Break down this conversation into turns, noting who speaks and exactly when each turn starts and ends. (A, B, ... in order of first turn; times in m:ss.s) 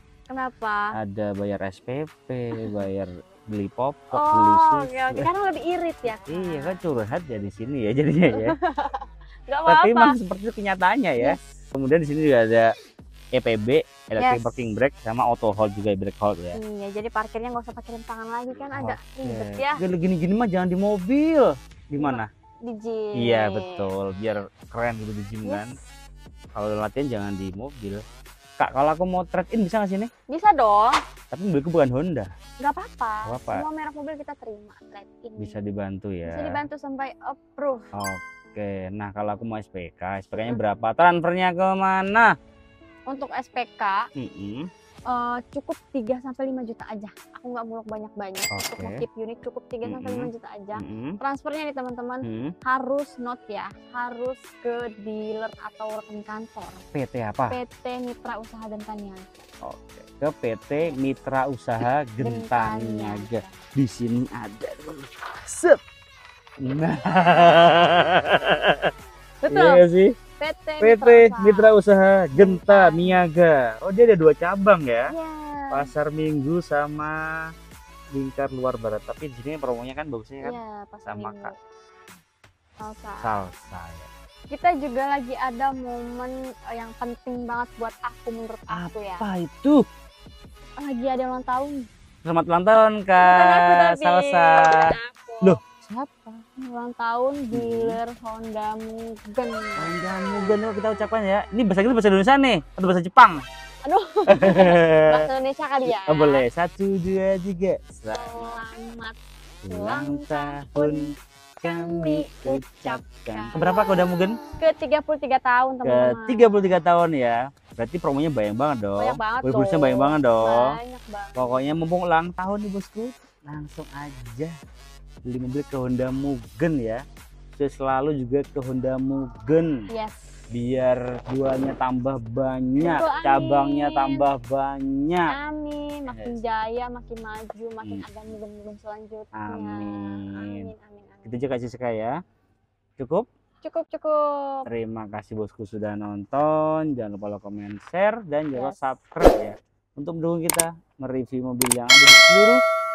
0:00.3-0:00.9 A
0:01.0-0:05.3 B
0:02.6-0:02.8 A
0:04.1-0:06.8 A
0:06.0-0:08.5 B
0:08.3-0:10.2 A
0:09.6-0:12.7 B
0:11.2-0:11.4 A
0:13.3-0:16.6 B
0:14.2-0:14.6 A
0:16.5-0:19.8 A
0:18.5-0:22.3 B
0:22.0-0:23.9 A
0:23.2-0:25.7 B
0:25.4-0:25.7 A
0:26.5-0:28.0 B
0:28.6-0:30.1 B
0:30.3-0:31.0 A
0:31.3-0:32.3 B
0:32.6-0:35.6 A
0:33.3-0:33.6 B
0:35.4-0:36.6 B
0:36.2-0:37.9 A
0:37.9-0:42.3 B
0:43.1-0:44.0 A
0:44.2-0:44.7 B
0:45.1-0:56.8 A
0:48.5-0:49.0 B
0:49.8-0:51.2 B
0:52.2-0:52.5 B
0:56.9-0:57.6 B
0:57.5-0:59.4 A
0:59.6-1:05.8 B
1:02.2-1:03.6 A
1:06.6-1:08.9 B
1:09.4-1:09.8 A
1:09.5-1:10.1 B
1:10.4-1:11.7 A
1:10.8-1:15.1 B
1:12.3-1:13.2 A
1:15.1-1:15.9 A
1:15.7-1:17.2 B
1:18.1-1:21.5 B
1:20.4-1:21.5 A
1:22.8-1:23.3 A
1:23.2-1:24.1 B
1:24.5-1:29.2 A
1:28.7-1:29.8 B
1:30.8-1:31.9 A
1:32.2-1:36.4 B
1:33.2-1:35.6 A
1:36.6-1:39.9 A
1:37.5-1:38.0 B
1:39.8-1:43.4 B
1:43.8-1:46.4 A
1:44.3-1:45.3 B
1:45.8-1:48.6 B
1:48.1-1:51.1 A
1:49.6-1:54.4 B
1:51.6-1:53.9 A
1:54.6-1:56.6 A
1:55.8-2:00.8 B
1:59.0-2:01.6 A
2:01.4-2:04.5 B
2:05.3-2:07.0 B
2:07.6-2:09.8 B
2:09.9-2:10.4 A
2:10.5-2:15.3 B
2:12.8-2:14.2 A
2:15.3-2:21.4 A
2:16.1-2:16.5 B
2:19.3-2:20.7 B
2:21.2-2:22.2 B
2:23.0-2:23.2 B
2:23.6-2:24.6 A
2:24.7-2:32.6 B
2:28.5-2:28.9 A